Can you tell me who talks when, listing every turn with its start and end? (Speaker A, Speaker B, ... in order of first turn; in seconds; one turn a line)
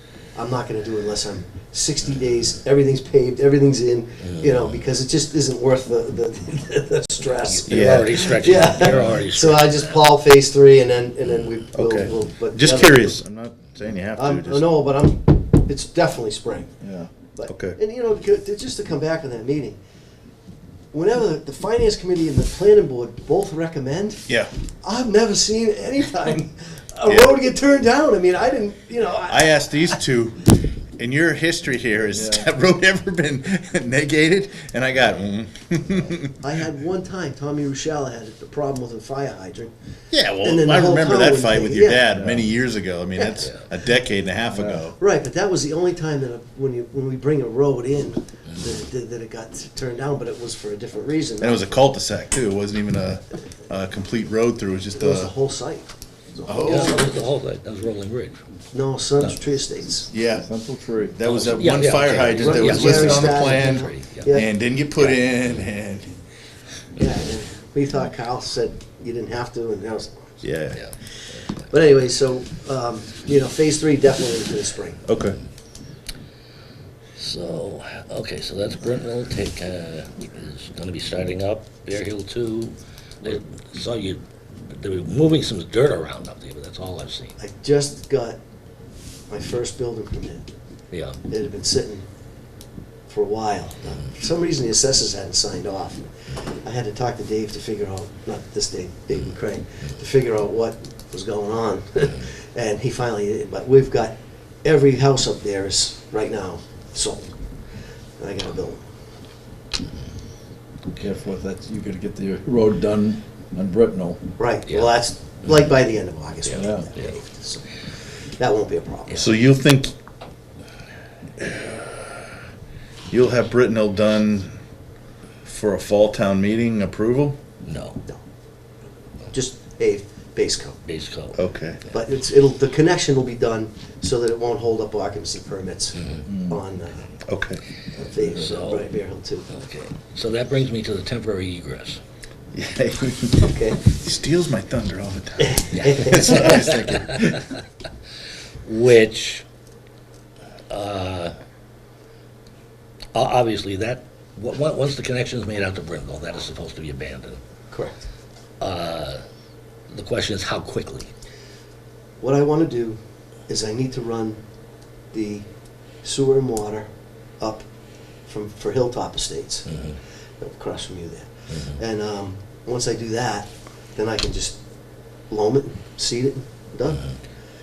Speaker A: 0.3-13.1
Speaker B: 4.3-4.7
Speaker B: 7.4-10.0
Speaker C: 7.7-8.1
Speaker C: 11.7-14.7
Speaker A: 14.2-16.7
Speaker D: 16.8-17.1
Speaker A: 17.3-19.8
Speaker C: 17.5-17.8
Speaker A: 20.9-24.3
Speaker A: 24.8-30.0
Speaker C: 27.0-27.4
Speaker C: 29.2-36.4
Speaker D: 32.1-32.5
Speaker A: 36.2-39.7
Speaker C: 40.1-45.0
Speaker A: 40.4-42.1
Speaker D: 42.1-42.5
Speaker A: 43.1-43.5
Speaker D: 44.5-44.8
Speaker A: 45.0-51.7
Speaker C: 51.4-55.3
Speaker A: 55.0-57.1
Speaker C: 56.5-57.1
Speaker B: 56.6-58.4
Speaker A: 58.7-60.1
Speaker C: 60.1-60.5
Speaker D: 60.3-61.2
Speaker C: 61.1-66.2
Speaker B: 61.2-64.3
Speaker A: 62.3-64.5
Speaker A: 67.0-70.4
Speaker C: 70.4-70.8
Speaker A: 71.7-75.0
Speaker C: 75.0-75.4
Speaker B: 77.2-87.3
Speaker A: 87.4-88.4
Speaker A: 89.3-90.5
Speaker B: 90.9-91.2
Speaker A: 91.3-92.0
Speaker A: 93.1-107.3
Speaker A: 108.2-108.8
Speaker D: 110.9-114.2
Speaker A: 114.4-119.3
Speaker B: 116.5-117.1
Speaker D: 116.5-116.9
Speaker C: 119.1-119.9
Speaker C: 121.5-121.8
Speaker C: 123.1-124.5
Speaker C: 125.4-127.4
Speaker B: 127.6-128.0
Speaker A: 129.3-130.8
Speaker B: 130.8-131.4
Speaker C: 131.3-131.8
Speaker A: 131.9-137.1
Speaker B: 136.0-136.3
Speaker D: 136.3-136.6
Speaker C: 137.2-137.6
Speaker A: 138.0-139.5
Speaker B: 138.3-138.9
Speaker B: 139.5-142.0
Speaker C: 142.5-147.5
Speaker A: 143.4-143.8
Speaker A: 145.5-146.6
Speaker B: 145.7-147.5
Speaker B: 148.6-149.4
Speaker B: 150.7-151.3
Speaker B: 153.1-157.4
Speaker A: 157.7-158.0
Speaker B: 158.6-159.2
Speaker B: 159.9-161.1
Speaker A: 162.2-164.4
Speaker A: 165.1-165.4
Speaker A: 166.0-166.9
Speaker A: 167.4-167.7
Speaker A: 168.3-169.7
Speaker B: 169.7-170.0
Speaker A: 170.4-174.6
Speaker A: 175.3-177.1